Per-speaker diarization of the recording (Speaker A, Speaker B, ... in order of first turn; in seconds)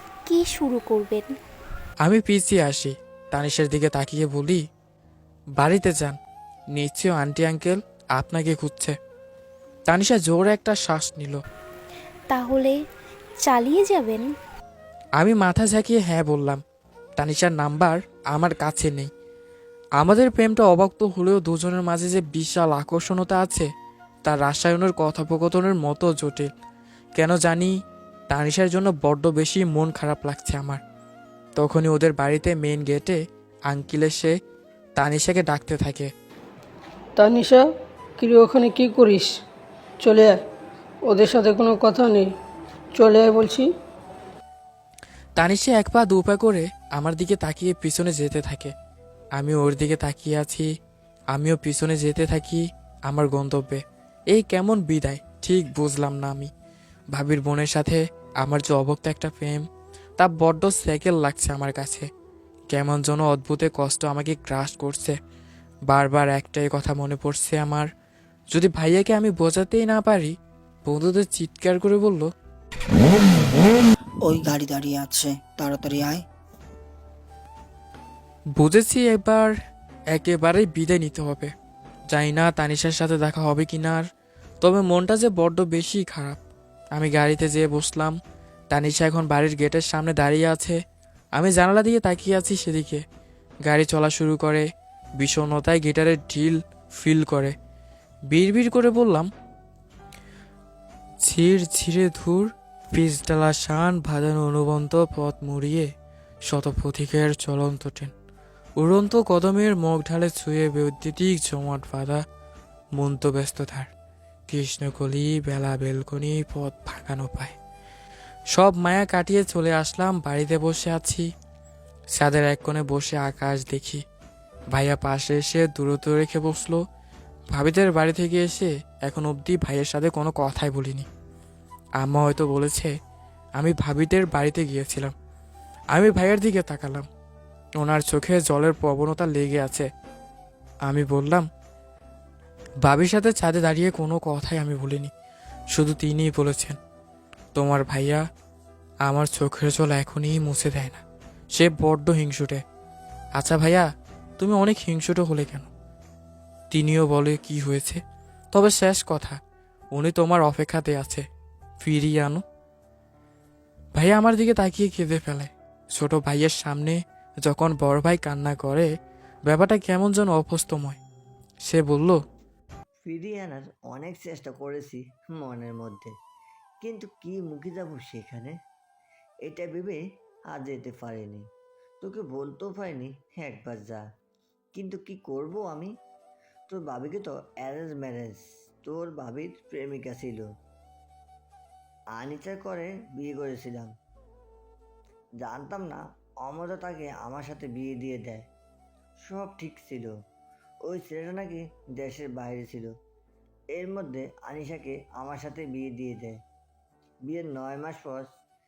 Speaker A: 0.3-1.3, 12.3-12.8, 13.4-14.2
Speaker B: 2.0-4.6, 5.6-6.2, 6.7-9.0, 9.9-11.4, 15.2-16.6, 17.2-19.1, 20.0-23.7, 24.2-26.5, 27.2-27.8, 28.3-30.8, 31.6-34.4, 35.0-36.1, 45.4-48.7, 49.4-50.7, 51.3-56.5, 57.1-59.7, 60.2-62.1, 62.7-65.2, 65.9-67.9, 68.5-72.3, 78.6-79.5, 80.1-81.5, 82.1-84.1, 84.6-86.4, 87.0-88.2, 88.7-90.8, 91.4-93.0, 93.7-94.7, 95.2-97.6, 98.3-99.3, 101.2-105.9, 106.5-108.1, 108.8-112.2, 113.0-113.9, 114.5-117.6, 118.5-121.3, 122.2-124.0, 124.7-126.8, 127.5-131.1, 132.0-132.9, 133.6-135.1, 135.9-137.1, 137.8-139.9, 140.9-141.5, 142.8-145.1, 145.7-146.8, 147.6-148.2, 149.1-151.0, 151.5-152.6, 153.4-155.7, 156.7-158.0, 158.5-159.4, 159.9-161.2, 161.8-162.4, 164.0-168.9, 169.5-171.0, 171.7-172.2
Speaker C: 37.2-37.6, 38.2-39.3, 40.0-40.4, 41.1-42.3, 43.0-43.7
Speaker D: 74.2-76.2
Speaker E: 173.1-176.1, 176.8-178.6, 179.4-180.0, 180.5-181.4, 182.0-184.1, 184.8-185.9, 186.7-190.5, 192.2-193.9, 195.4-198.5, 199.3-200.2, 200.9-202.9, 203.7-206.4, 207.3-208.3